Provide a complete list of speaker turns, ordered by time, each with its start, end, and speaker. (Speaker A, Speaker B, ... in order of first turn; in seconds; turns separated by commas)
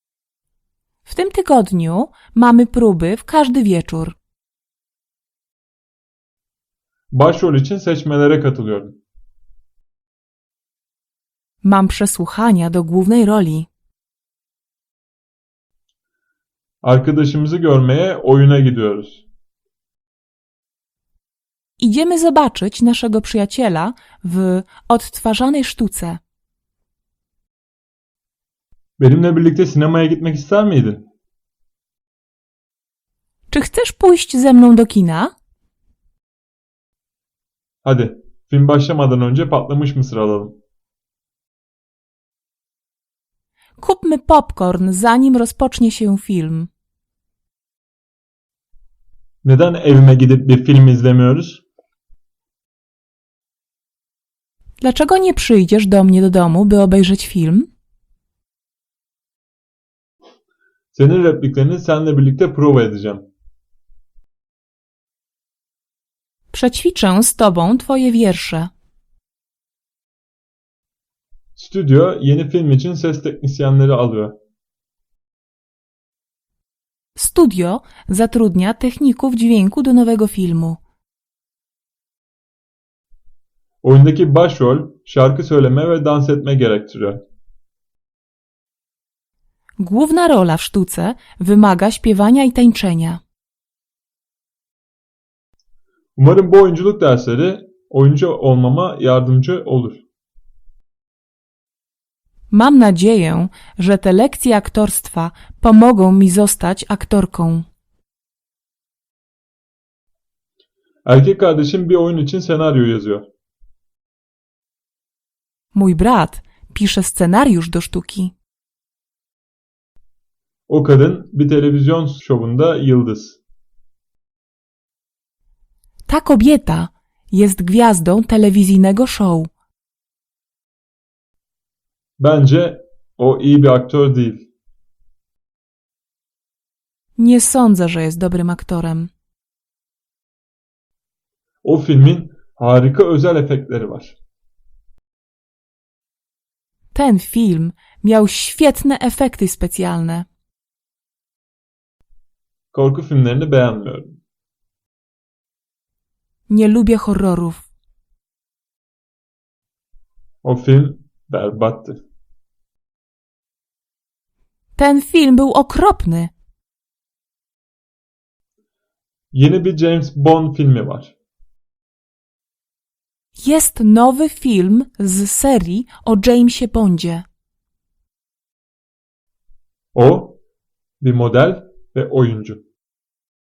Speaker A: 1.1-4.2, Speaker B: 7.1-9.0, Speaker A: 11.6-13.7, Speaker B: 16.8-19.2, Speaker A: 21.8-26.2, Speaker B: 29.0-31.1, Speaker A: 33.5-35.3, Speaker B: 37.8-40.6, Speaker A: 43.8-46.7, Speaker B: 49.4-51.6, Speaker A: 54.8-57.7, Speaker B: 60.9-63.3, Speaker A: 66.5-68.7, Speaker B: 71.6-74.4, Speaker A: 77.2-80.8, Speaker B: 83.8-87.2, Speaker A: 89.8-93.2, Speaker B: 96.2-100.1, Speaker A: 102.5-107.7, Speaker B: 111.0-113.3, Speaker A: 115.7-118.3, Speaker B: 120.7-123.4, Speaker A: 126.1-129.5, Speaker B: 132.2-134.5, Speaker A: 137.2-139.1, Speaker B: 141.6-144.2, Speaker A: 146.9-150.3, Speaker B: 152.7-154.2, Speaker A: 156.5-157.7, Speaker B: 160.4-162.0, Speaker A: 164.8-166.3, Speaker B: 169.3-171.2, Speaker A: 173.4-177.3, Speaker B: 179.9-180.4, Speaker B: 181.0-182.6